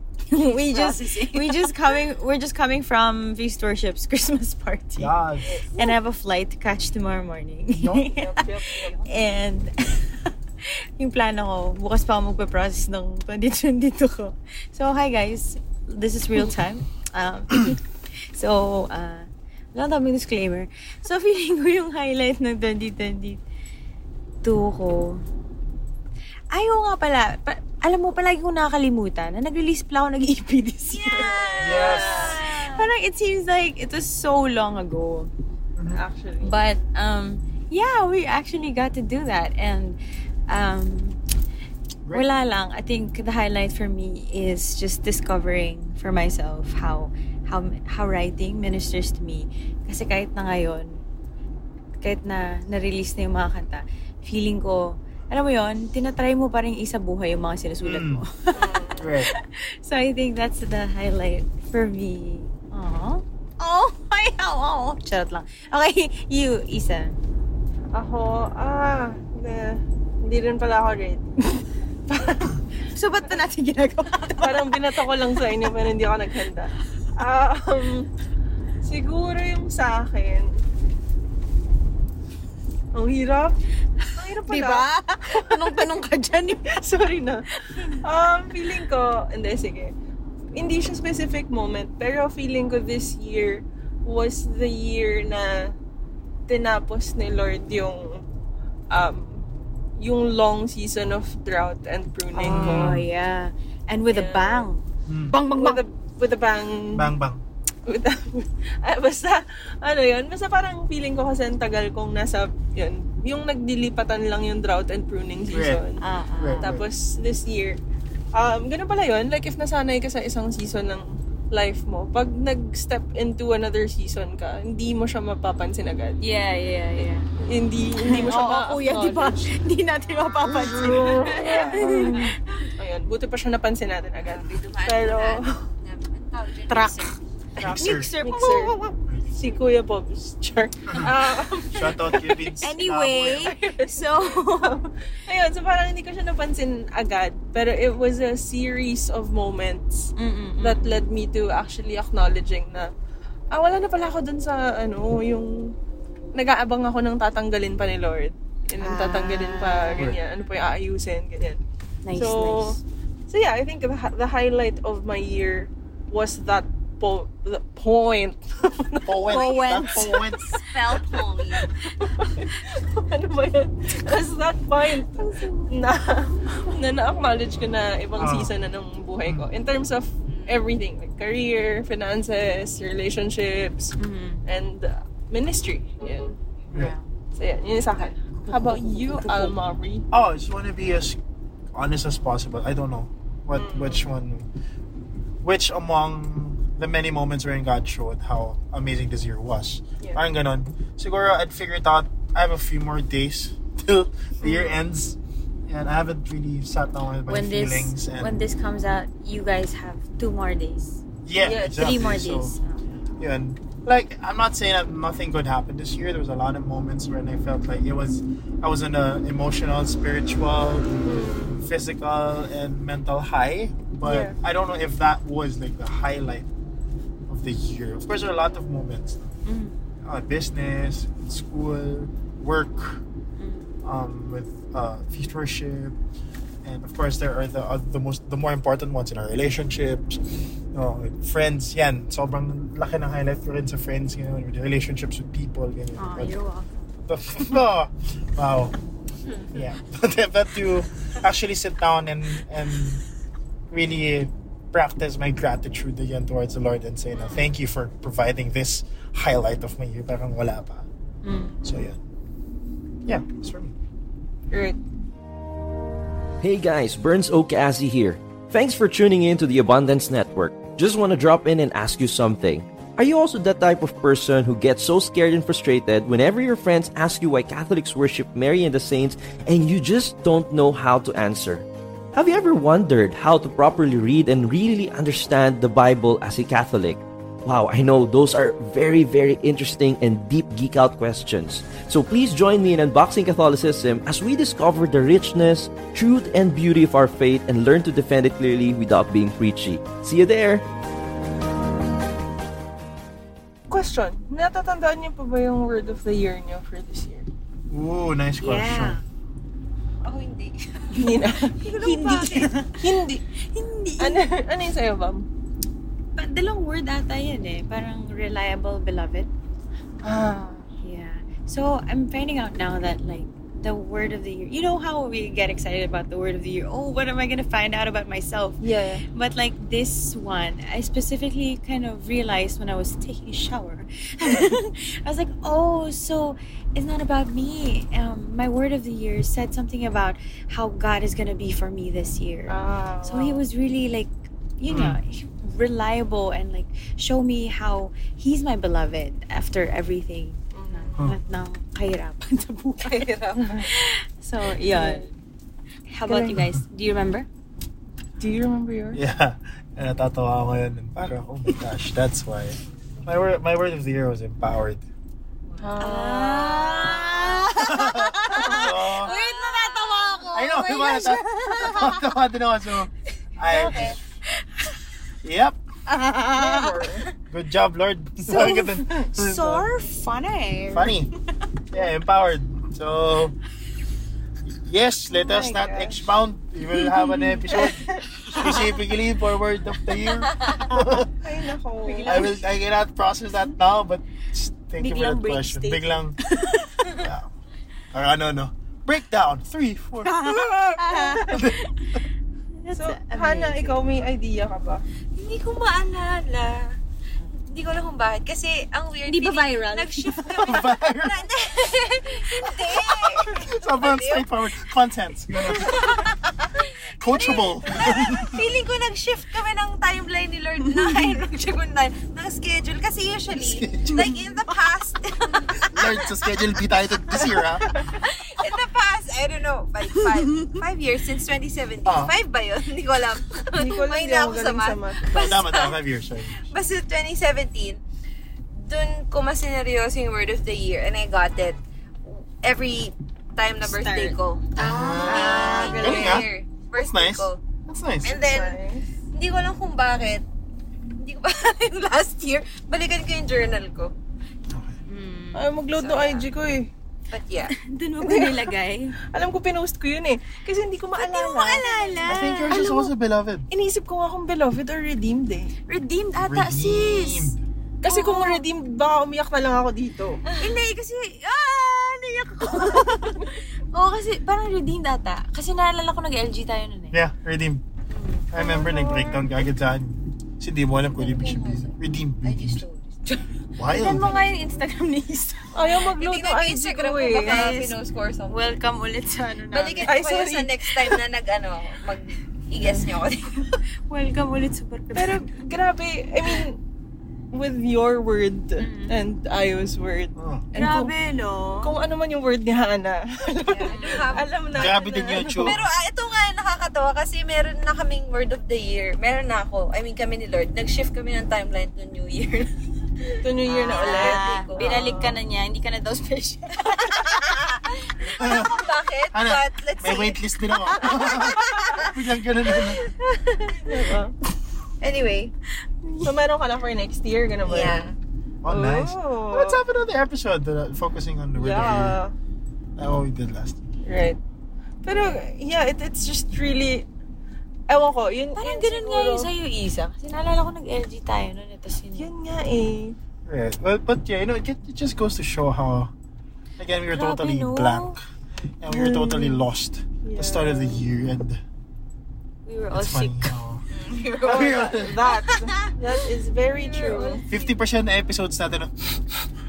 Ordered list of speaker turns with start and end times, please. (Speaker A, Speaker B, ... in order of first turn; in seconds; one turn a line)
Speaker A: 0.3-5.1
Speaker B: 0.6-1.7
Speaker C: 5.0-5.5
Speaker A: 5.7-23.4
Speaker C: 7.8-8.1
Speaker D: 8.1-9.1
Speaker A: 24.4-25.2
Speaker A: 26.5-35.3
Speaker B: 30.9-32.7
Speaker D: 31.1-32.4
Speaker C: 31.6-32.3
Speaker C: 35.8-36.0
Speaker D: 35.9-36.6
Speaker A: 36.4-40.0
Speaker A: 40.5-41.2
Speaker A: 42.1-51.0
Speaker A: 52.0-67.2
Speaker C: 57.8-58.2
Speaker D: 58.5-58.9
Speaker B: 58.6-59.2
Speaker C: 59.0-59.3
Speaker D: 67.9-72.5
Speaker A: 72.8-74.8
Speaker D: 74.4-78.1
Speaker D: 78.8-80.6
Speaker D: 82.9-83.6
Speaker D: 84.1-85.8
Speaker A: 84.4-86.7
Speaker D: 86.5-89.9
Speaker A: 87.5-88.0
Speaker D: 90.5-95.7
Speaker D: 96.5-98.2
Speaker D: 98.9-99.5
Speaker D: 100.0-103.0
Speaker A: 102.3-105.8
Speaker C: 102.5-103.1
Speaker D: 104.1-104.7
Speaker C: 105.1-105.4
Speaker D: 105.5-107.1
Speaker C: 106.9-107.4
Speaker D: 107.8-116.0
Speaker C: 115.5-115.8
Speaker A: 116.0-116.7
Speaker C: 116.4-116.9
Speaker D: 116.6-117.8
Speaker D: 118.3-126.2
Speaker A: 126.2-127.3
Speaker D: 127.0-129.5
Speaker A: 128.0-132.3
Speaker B: 130.1-131.4
Speaker D: 130.5-135.6
Speaker C: 130.6-131.1
Speaker B: 134.2-137.2
Speaker A: 136.7-137.1
Speaker C: 137.6-138.1
Speaker D: 137.6-142.5
Speaker A: 137.7-138.8
Speaker C: 139.1-139.3
Speaker C: 141.7-143.5
Speaker A: 142.6-144.8
Speaker D: 143.3-152.9
Speaker A: 150.2-151.0
Speaker D: 153.5-155.7
Speaker D: 156.3-161.6
Speaker A: 158.8-160.2
Speaker A: 162.0-162.8
Speaker D: 162.1-183.9
Speaker C: 169.0-170.5
Speaker A: 169.3-170.2
Speaker B: 170.5-171.7
Speaker A: 175.2-175.7
Speaker C: 178.2-178.5
Speaker B: 180.3-180.7
Speaker A: 184.0-184.4
Speaker D: 184.4-186.3
Speaker A: 186.7-187.0
Speaker D: 187.3-190.1
Speaker A: 188.4-189.5
Speaker C: 190.1-191.2
Speaker C: 191.7-194.5
Speaker D: 193.5-194.0
Speaker C: 195.4-208.4
Speaker A: 207.3-211.0
Speaker C: 211.2-212.6
Speaker D: 211.4-212.0
Speaker A: 211.8-212.8
Speaker C: 213.2-226.5
Speaker D: 221.0-221.6
Speaker D: 224.0-224.4
Speaker C: 227.3-229.2
Speaker A: 229.4-229.7
Speaker C: 230.0-233.0
Speaker A: 233.4-233.7
Speaker C: 233.8-235.9
Speaker C: 236.6-246.3
Speaker A: 246.0-246.8
Speaker C: 247.1-248.8
Speaker C: 249.5-253.0
Speaker C: 253.7-260.9
Speaker A: 257.1-257.4
Speaker A: 261.2-261.6
Speaker C: 261.6-262.0
Speaker C: 263.1-263.7
Speaker D: 264.5-264.8
Speaker E: 266.4-300.6
Speaker D: 303.7-307.3
Speaker C: 307.7-309.0
Speaker A: 308.4-309.0
Speaker B: 310.0-311.1
Speaker D: 310.9-311.5
Speaker B: 311.6-312.5
Speaker A: 311.7-312.8
Speaker D: 312.7-313.2
Speaker A: 313.5-314.2
Speaker D: 314.0-315.2
Speaker A: 316.1-319.3
Speaker D: 320.0-320.6
Speaker A: 320.8-328.6
Speaker D: 328.6-329.0
Speaker A: 329.1-355.1
Speaker D: 342.5-343.4
Speaker C: 344.7-345.0
Speaker D: 350.5-351.1
Speaker B: 352.8-353.7
Speaker D: 353.4-353.7
Speaker D: 354.7-355.1
Speaker A: 355.9-357.3
Speaker D: 356.1-356.4
Speaker D: 358.2-359.0
Speaker C: 358.9-364.9
Speaker D: 365.6-366.9
Speaker A: 365.8-372.1
Speaker B: 366.5-367.5
Speaker C: 367.5-369.1
Speaker B: 368.5-370.2
Speaker C: 370.3-374.0
Speaker B: 373.6-373.9
Speaker C: 375.2-375.6
Speaker A: 375.9-376.7
Speaker D: 376.4-377.1
Speaker C: 377.3-379.7
Speaker A: 378.2-381.0
Speaker C: 380.7-381.1
Speaker C: 381.7-383.4
Speaker C: 384.5-391.1
Speaker A: 385.2-385.6
Speaker D: 385.3-386.0
Speaker A: 386.8-387.4
Speaker D: 387.5-388.5
Speaker A: 388.3-388.7
Speaker A: 390.5-390.8
Speaker D: 391.2-392.3
Speaker A: 391.8-392.4
Speaker C: 392.1-396.2
Speaker A: 394.8-397.0
Speaker C: 396.9-397.3
Speaker C: 397.9-402.0
Speaker A: 400.0-402.0
Speaker D: 400.9-401.4
Speaker A: 402.6-403.9
Speaker D: 402.7-404.8
Speaker B: 405.1-406.8
Speaker B: 407.4-414.3
Speaker A: 409.1-410.5
Speaker C: 410.2-411.3
Speaker C: 412.9-416.0
Speaker B: 415.4-426.1
Speaker C: 417.0-418.4
Speaker C: 423.4-424.1
Speaker C: 425.7-427.9
Speaker B: 427.9-435.8
Speaker A: 429.9-430.6
Speaker C: 431.8-432.1
Speaker D: 433.5-435.1
Speaker C: 435.1-436.5
Speaker B: 436.4-437.8
Speaker B: 438.5-447.4
Speaker A: 443.6-446.2
Speaker C: 444.6-448.2
Speaker B: 448.0-448.6
Speaker D: 448.2-448.9
Speaker B: 449.1-450.2
Speaker B: 451.0-453.9
Speaker C: 454.5-454.8
Speaker A: 454.9-455.5
Speaker D: 455.3-456.7
Speaker B: 455.8-456.3
Speaker B: 457.1-457.5
Speaker A: 457.5-458.9
Speaker D: 458.0-458.5
Speaker D: 459.1-461.7
Speaker A: 461.1-462.7
Speaker B: 461.1-462.1
Speaker C: 462.1-463.5
Speaker D: 462.5-462.9
Speaker D: 463.5-465.5
Speaker A: 465.7-467.3
Speaker C: 466.1-467.4
Speaker D: 467.8-470.2
Speaker A: 467.8-468.4
Speaker B: 470.3-470.6
Speaker A: 470.4-477.0
Speaker C: 476.9-477.6
Speaker C: 478.3-482.6
Speaker D: 478.7-479.1
Speaker B: 480.9-483.2
Speaker C: 483.6-484.1
Speaker A: 483.7-485.9
Speaker B: 484.0-484.3
Speaker D: 485.5-487.5
Speaker B: 486.0-488.5
Speaker A: 487.1-487.8
Speaker A: 488.3-490.1
Speaker B: 489.5-493.6
Speaker D: 489.8-490.8
Speaker A: 493.9-495.3
Speaker D: 494.9-496.6
Speaker D: 497.3-500.9
Speaker A: 498.6-498.9
Speaker C: 500.1-500.5
Speaker A: 500.5-501.7
Speaker D: 501.6-505.6
Speaker B: 503.5-504.8
Speaker A: 503.6-504.2
Speaker C: 504.5-505.6
Speaker B: 505.3-512.5
Speaker B: 513.1-515.0
Speaker D: 513.2-515.1
Speaker A: 513.6-517.3
Speaker B: 517.0-521.9
Speaker A: 518.0-518.5
Speaker C: 518.2-522.8
Speaker A: 520.7-521.6
Speaker A: 522.8-523.6
Speaker D: 523.6-524.1
Speaker B: 524.8-525.3
Speaker A: 525.8-526.1
Speaker D: 526.0-527.8
Speaker B: 527.4-528.0
Speaker C: 528.4-532.0
Speaker D: 528.5-529.6
Speaker D: 531.3-532.1
Speaker C: 532.8-533.6
Speaker D: 533.8-534.2
Speaker D: 534.8-536.9
Speaker D: 537.7-539.3
Speaker A: 538.4-542.1
Speaker D: 541.9-543.0
Speaker C: 543.2-545.9
Speaker C: 546.6-548.0
Speaker A: 546.9-548.0
Speaker C: 548.6-551.4
Speaker D: 548.7-549.4
Speaker D: 550.0-550.9
Speaker A: 552.5-553.3
Speaker C: 552.7-553.6
Speaker B: 553.7-554.9
Speaker D: 554.2-557.2
Speaker C: 554.2-555.0
Speaker B: 556.5-557.5
Speaker C: 557.3-559.3